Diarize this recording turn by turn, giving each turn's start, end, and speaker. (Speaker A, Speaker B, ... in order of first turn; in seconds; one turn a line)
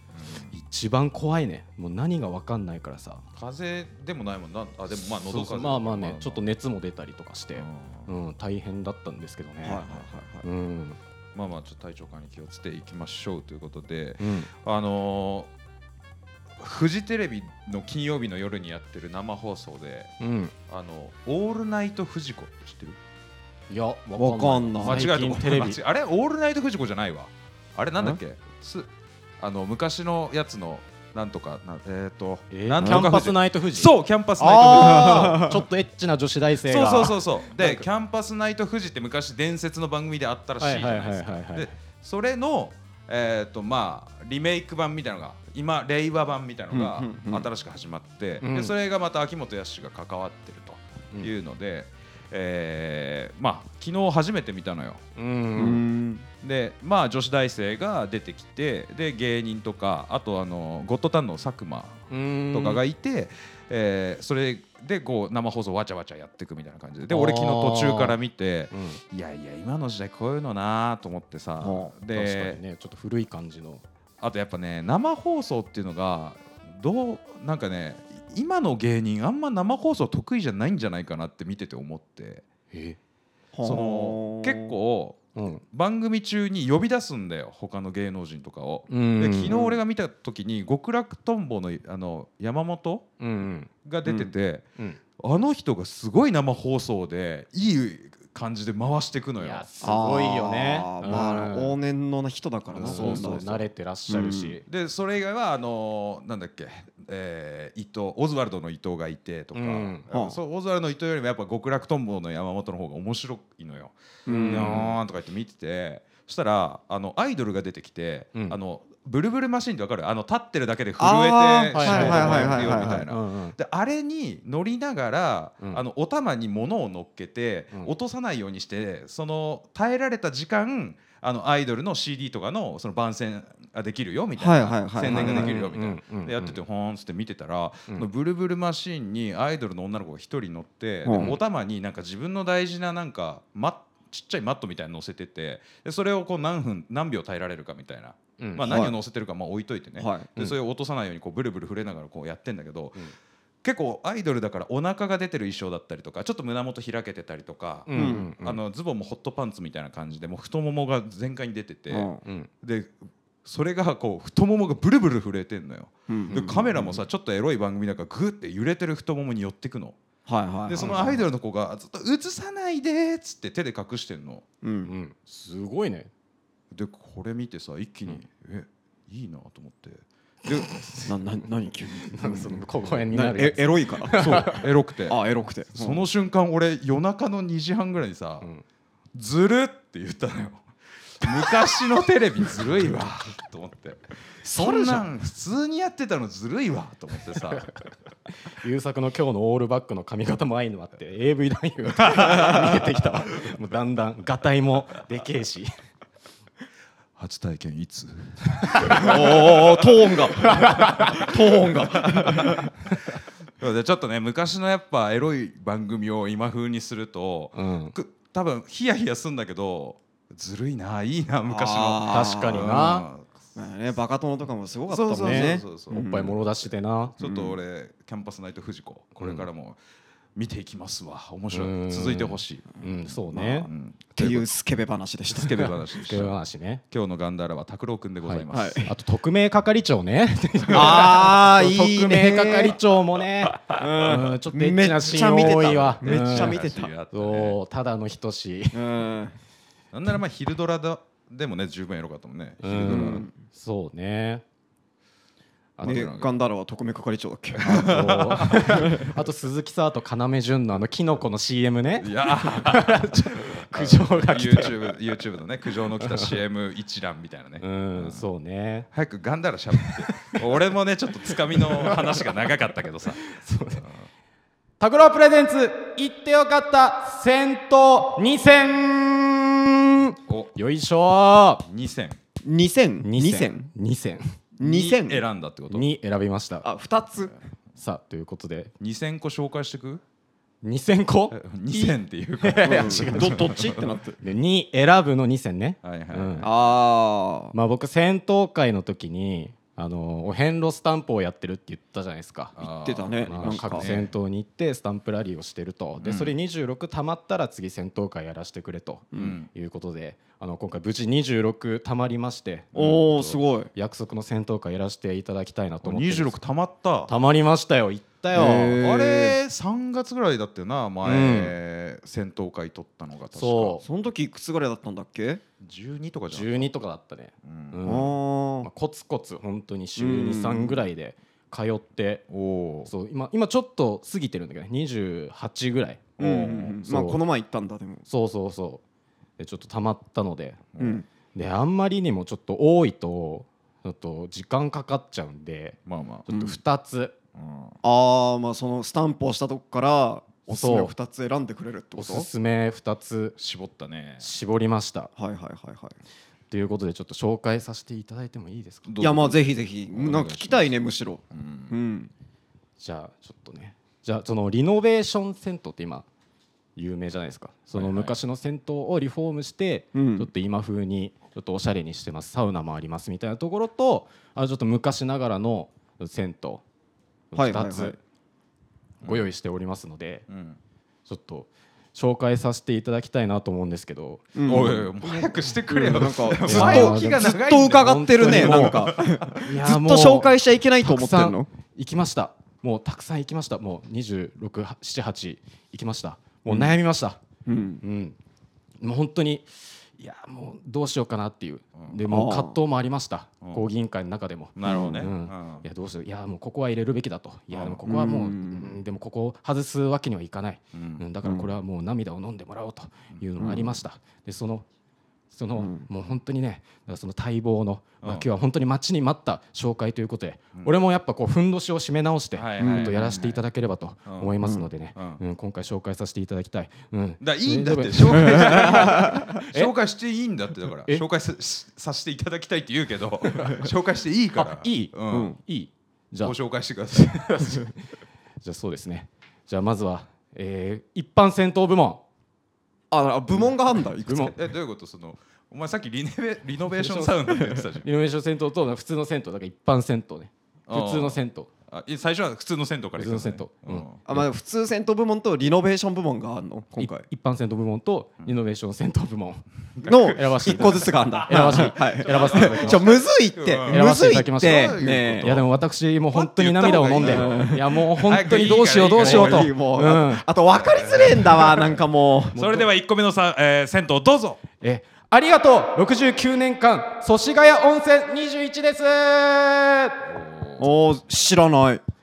Speaker A: 0.1-0.5
Speaker B: 0.5-3.2
Speaker A: 3.4-6.4
Speaker B: 5.0-9.8
Speaker A: 7.5-8.1
Speaker C: 9.6-10.4
Speaker B: 10.4-11.0
Speaker A: 11.3-15.5
Speaker B: 14.2-14.5
Speaker A: 16.6-20.1
Speaker B: 20.2-20.5
Speaker A: 20.7-23.0
Speaker B: 23.7-25.8
Speaker C: 24.2-25.1
Speaker A: 24.8-35.5
Speaker B: 32.5-37.9
Speaker C: 32.8-33.2
Speaker C: 34.4-35.6
Speaker A: 36.6-55.0
Speaker B: 40.6-41.7
Speaker C: 46.7-47.5
Speaker B: 48.4-48.7
Speaker B: 55.1-55.8
Speaker C: 55.5-56.3
Speaker A: 56.4-72.6
Speaker B: 62.1-62.8
Speaker B: 67.1-68.2
Speaker B: 68.7-69.0
Speaker C: 71.6-71.9
Speaker B: 72.1-73.8
Speaker A: 74.2-82.4
Speaker B: 82.7-83.0
Speaker C: 83.5-84.7
Speaker A: 83.6-93.1
Speaker B: 85.3-85.6
Speaker B: 88.9-89.5
Speaker C: 89.5-89.8
Speaker B: 93.2-93.7
Speaker A: 93.8-94.7
Speaker C: 94.0-94.3
Speaker A: 95.2-99.7
Speaker B: 99.4-101.8
Speaker C: 99.8-104.6
Speaker A: 102.7-103.3
Speaker B: 102.8-104.6
Speaker A: 104.7-114.0
Speaker B: 109.5-110.0
Speaker C: 110.1-110.4
Speaker C: 114.2-114.9
Speaker B: 114.3-115.0
Speaker A: 114.5-153.0
Speaker C: 121.0-123.0
Speaker B: 121.7-123.5
Speaker C: 134.4-135.5
Speaker B: 135.0-136.6
Speaker C: 141.1-141.4
Speaker B: 148.4-148.7
Speaker C: 148.6-148.9
Speaker C: 150.0-150.3
Speaker A: 153.6-162.9
Speaker B: 157.9-158.6
Speaker C: 157.9-158.3
Speaker C: 161.9-162.2
Speaker A: 163.4-169.9
Speaker C: 166.1-167.0
Speaker C: 170.3-171.2
Speaker A: 170.7-174.4
Speaker C: 174.6-174.9
Speaker B: 174.8-176.1
Speaker A: 176.7-180.7
Speaker B: 180.8-181.1
Speaker C: 181.1-184.4
Speaker B: 182.0-184.6
Speaker A: 184.1-185.2
Speaker C: 185.1-186.0
Speaker A: 185.7-188.4
Speaker A: 189.1-190.6
Speaker A: 191.1-197.7
Speaker B: 194.6-195.0
Speaker B: 198.6-205.7
Speaker A: 202.1-202.7
Speaker A: 207.2-212.7
Speaker B: 208.6-209.5
Speaker C: 208.9-212.7
Speaker B: 210.4-211.3
Speaker A: 213.6-223.3
Speaker B: 217.5-217.9
Speaker C: 221.4-222.8
Speaker B: 222.1-223.1
Speaker C: 223.5-226.4
Speaker B: 224.9-227.2
Speaker A: 224.9-226.1
Speaker A: 227.2-229.8
Speaker C: 227.2-227.6
Speaker B: 229.2-229.4
Speaker A: 230.3-234.5
Speaker B: 231.5-233.7
Speaker C: 234.2-235.7
Speaker A: 235.3-236.4
Speaker B: 235.4-236.8
Speaker A: 236.9-238.9
Speaker B: 238.2-248.8
Speaker C: 238.5-238.9
Speaker C: 240.7-242.8
Speaker A: 240.8-241.1
Speaker C: 243.8-246.9
Speaker A: 245.2-247.6
Speaker C: 248.7-249.3
Speaker A: 249.9-253.2
Speaker B: 252.6-254.4
Speaker C: 252.8-253.3
Speaker B: 255.8-256.1
Speaker A: 255.8-256.3
Speaker C: 255.8-259.1
Speaker A: 257.6-258.9
Speaker B: 257.6-264.9
Speaker A: 262.0-268.2
Speaker B: 266.0-266.4
Speaker B: 267.6-268.9
Speaker A: 268.9-273.2
Speaker B: 269.8-270.2
Speaker B: 271.3-272.2
Speaker B: 273.3-273.8
Speaker B: 274.8-281.6
Speaker A: 280.3-280.5
Speaker A: 281.6-282.2
Speaker C: 282.4-283.7
Speaker B: 283.0-284.4
Speaker C: 284.6-285.2
Speaker A: 284.6-285.9
Speaker B: 285.7-286.7
Speaker C: 286.6-287.3
Speaker B: 287.8-288.7
Speaker A: 288.8-290.0
Speaker B: 290.6-293.5
Speaker A: 291.3-293.9
Speaker C: 292.6-294.2
Speaker B: 294.2-296.5
Speaker A: 295.8-296.5
Speaker C: 296.4-297.5
Speaker B: 297.5-302.6
Speaker A: 302.6-304.1
Speaker C: 302.6-303.9
Speaker B: 303.2-316.4
Speaker A: 306.0-306.3
Speaker A: 309.1-309.5
Speaker A: 312.7-313.1
Speaker C: 312.7-313.7
Speaker A: 315.8-317.1
Speaker B: 317.1-318.8
Speaker C: 318.3-319.4
Speaker A: 318.8-323.8
Speaker B: 321.0-321.5
Speaker B: 323.3-323.8
Speaker C: 323.8-325.4
Speaker A: 325.6-326.7
Speaker B: 326.3-332.2
Speaker A: 327.4-327.9
Speaker C: 327.9-328.7
Speaker C: 329.9-330.8
Speaker A: 332.3-332.9
Speaker B: 332.9-336.2
Speaker A: 336.2-336.8
Speaker C: 336.2-338.0
Speaker B: 336.8-337.2
Speaker B: 338.1-338.8
Speaker B: 339.4-340.6
Speaker A: 340.7-341.0
Speaker C: 340.8-341.1
Speaker B: 341.3-347.1
Speaker A: 345.9-346.3
Speaker C: 346.3-346.6
Speaker A: 347.3-347.8
Speaker C: 347.8-352.3
Speaker B: 350.5-350.9
Speaker B: 351.9-353.4
Speaker A: 353.4-354.3
Speaker B: 354.2-355.1
Speaker C: 355.2-355.9
Speaker B: 356.5-358.9
Speaker A: 358.9-360.8
Speaker C: 359.0-362.1
Speaker A: 361.3-361.8
Speaker B: 362.8-366.1
Speaker B: 366.8-376.6
Speaker A: 367.7-368.1
Speaker C: 369.9-370.3
Speaker B: 377.3-378.0
Speaker C: 377.3-378.0
Speaker A: 379.0-379.3
Speaker B: 379.0-380.2
Speaker A: 380.3-380.6
Speaker B: 381.1-397.2
Speaker C: 384.3-384.9
Speaker A: 384.4-389.5
Speaker C: 385.8-391.5
Speaker C: 397.4-397.8
Speaker B: 397.8-398.2
Speaker B: 398.8-414.6
Speaker C: 402.0-402.6
Speaker A: 404.6-405.6
Speaker C: 404.6-405.1
Speaker A: 407.5-407.8
Speaker C: 407.8-408.8
Speaker A: 410.7-411.1
Speaker C: 411.2-411.5
Speaker A: 413.1-413.5
Speaker C: 413.4-413.7
Speaker B: 415.3-429.7
Speaker C: 415.6-415.9
Speaker A: 422.4-423.4
Speaker C: 422.6-423.2
Speaker A: 424.1-425.2
Speaker C: 424.4-424.7
Speaker A: 427.2-435.3
Speaker C: 428.2-429.2
Speaker B: 433.3-433.6
Speaker B: 434.4-436.4
Speaker C: 435.1-435.4
Speaker A: 436.2-437.4
Speaker B: 436.9-437.8
Speaker B: 438.4-442.0
Speaker C: 442.9-444.3
Speaker B: 444.1-444.3
Speaker A: 444.3-447.9
Speaker B: 446.7-451.5
Speaker A: 450.7-454.0
Speaker B: 453.0-454.2
Speaker C: 454.1-457.1
Speaker B: 456.8-463.0
Speaker A: 459.8-465.5
Speaker C: 459.9-465.4
Speaker B: 463.7-470.2
Speaker A: 466.1-469.5
Speaker C: 467.0-467.7
Speaker C: 468.9-472.4
Speaker A: 470.6-471.7
Speaker A: 472.3-474.4
Speaker B: 472.3-472.7
Speaker B: 474.6-480.0
Speaker A: 480.1-480.7
Speaker C: 480.6-481.8